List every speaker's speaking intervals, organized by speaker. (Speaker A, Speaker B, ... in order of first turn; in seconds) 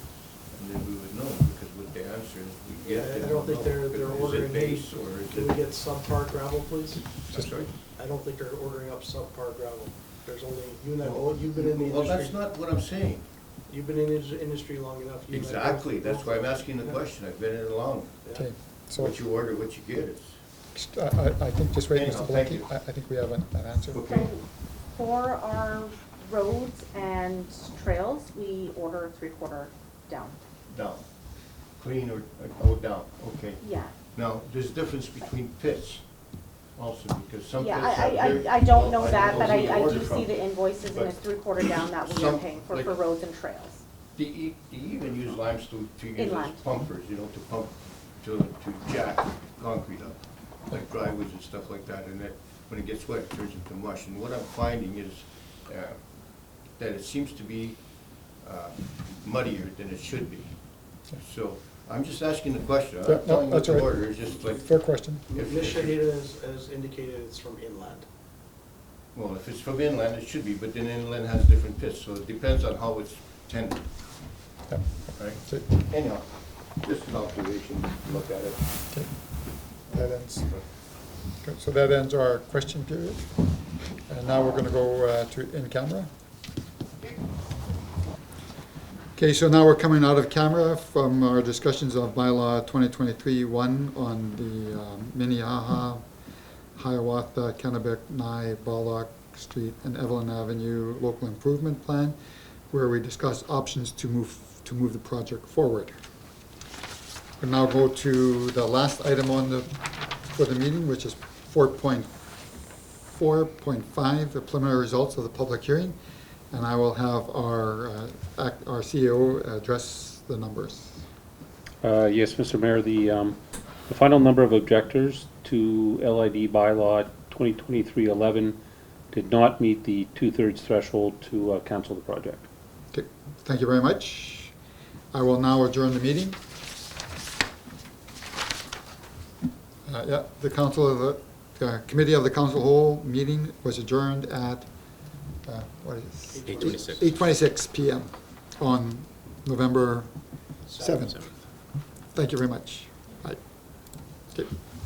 Speaker A: 0.5-5.6, 7.2-7.7, 11.0-13.2, 15.3-18.2, 18.9-20.4, 21.9-22.7, 23.9-24.3, 30.7-31.1, 31.8-36.1, 36.7-43.0, 44.2-56.0, 56.8-66.0, 69.1-73.9, 75.1-78.6
Speaker B: 2.8-7.2, 7.8-12.4, 13.7-17.0, 65.3-68.1, 146.3-147.1, 150.7-151.3
Speaker C: 7.3-7.7, 18.4-19.2, 20.7-24.1, 63.0-65.2, 74.7-75.7, 79.9-80.7, 81.4-83.4, 84.1-86.1, 89.2-96.0, 96.8-102.2, 102.7-106.0, 107.4-112.1, 113.1-116.0, 116.5-121.0, 132.9-134.6, 135.1-136.4, 139.9-144.7, 145.4-150.1, 150.8-151.3, 152.1-154.6
Speaker D: 23.9-30.4, 33.6-33.9, 37.6-43.8, 46.2-46.7
Speaker E: 121.8-128.6, 129.1-132.5